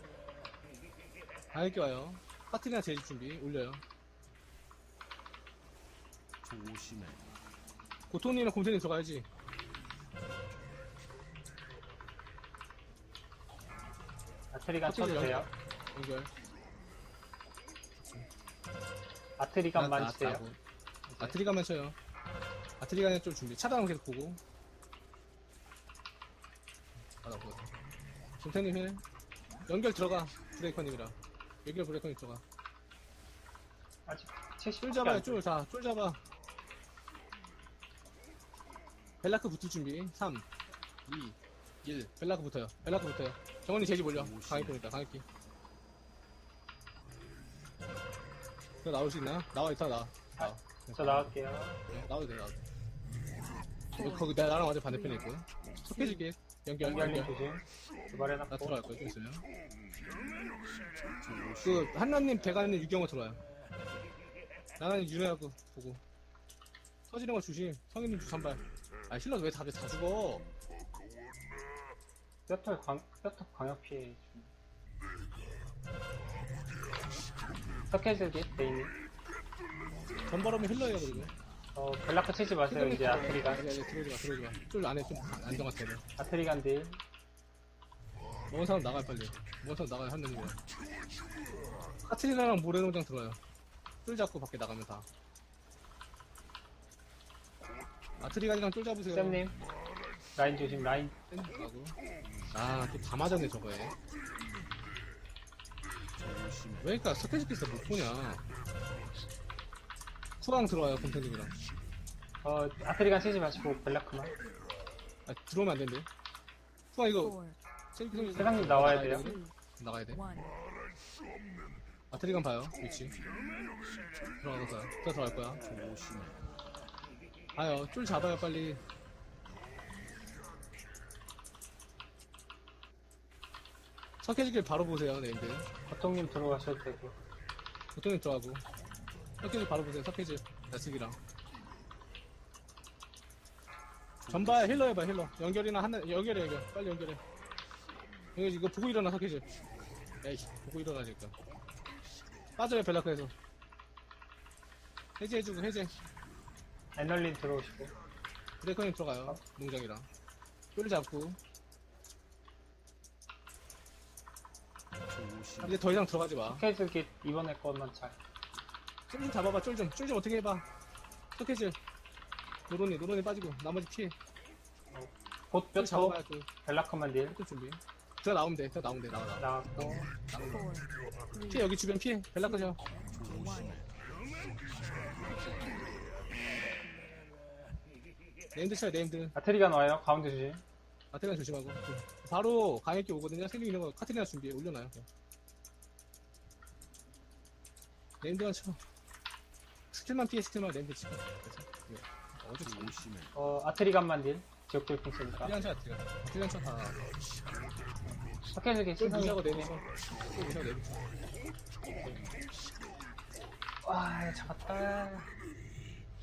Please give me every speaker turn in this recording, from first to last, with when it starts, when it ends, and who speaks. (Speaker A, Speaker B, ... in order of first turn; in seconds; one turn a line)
Speaker A: 1.5-3.8
Speaker B: 6.5-7.2
Speaker A: 8.1-9.3
Speaker C: 14.5-15.5
Speaker A: 14.8-16.3
Speaker A: 18.0-18.3
Speaker C: 19.4-20.4
Speaker A: 19.7-20.6
Speaker C: 21.1-21.4
Speaker A: 21.2-21.9
Speaker A: 22.8-24.4
Speaker A: 27.2-27.7
Speaker A: 28.4-29.0
Speaker A: 29.7-32.4
Speaker C: 34.1-35.4
Speaker A: 34.8-36.2
Speaker A: 39.2-40.5
Speaker A: 41.0-45.2
Speaker A: 48.8-52.6
Speaker C: 50.4-51.8
Speaker D: 53.9-55.3
Speaker A: 54.0-57.3
Speaker D: 55.8-56.2
Speaker C: 56.8-58.8
Speaker A: 58.5-59.4
Speaker A: 61.6-63.4
Speaker A: 64.8-66.0
Speaker A: 67.1-70.5
Speaker C: 72.5-74.5
Speaker C: 77.9-78.9
Speaker A: 80.3-81.3
Speaker C: 81.7-83.6
Speaker A: 82.7-86.0
Speaker C: 86.2-87.0
Speaker A: 88.5-90.6
Speaker A: 92.0-93.4
Speaker A: 94.0-95.1
Speaker A: 98.2-99.4
Speaker C: 99.1-99.6
Speaker C: 100.3-101.1
Speaker A: 101.3-102.0
Speaker A: 102.5-103.9
Speaker B: 106.3-106.6
Speaker A: 106.8-108.5
Speaker A: 110.4-111.5
Speaker C: 112.4-114.3
Speaker A: 115.2-116.1
Speaker A: 116.9-117.4
Speaker D: 117.2-117.6
Speaker A: 117.9-120.2
Speaker D: 118.1-119.5
Speaker C: 118.3-119.3
Speaker D: 120.1-120.5
Speaker A: 122.1-123.1
Speaker A: 124.4-125.6
Speaker B: 125.7-126.5
Speaker A: 127.5-128.8
Speaker A: 134.2-135.7
Speaker C: 135.9-137.2
Speaker A: 137.9-138.6
Speaker A: 139.4-141.2
Speaker A: 144.3-147.2
Speaker A: 148.3-149.5
Speaker A: 150.2-151.3
Speaker A: 152.6-153.3
Speaker A: 155.2-155.9
Speaker C: 156.9-157.9
Speaker A: 158.6-160.1
Speaker A: 160.7-161.4
Speaker B: 165.2-165.5
Speaker A: 165.6-166.6
Speaker C: 166.4-168.2
Speaker A: 169.1-170.6
Speaker A: 171.3-171.8
Speaker A: 172.7-174.1
Speaker C: 174.9-177.4
Speaker A: 175.8-176.5
Speaker A: 177.3-180.7
Speaker C: 179.4-180.1
Speaker D: 180.5-181.7
Speaker A: 181.5-182.8
Speaker D: 182.4-183.9
Speaker A: 188.5-189.3
Speaker C: 189.3-190.6
Speaker A: 191.1-195.1
Speaker A: 198.2-198.8
Speaker A: 199.9-203.0
Speaker C: 203.3-205.6
Speaker A: 205.3-207.0
Speaker C: 208.5-209.7
Speaker A: 209.0-211.1
Speaker C: 212.0-212.3
Speaker C: 213.8-215.3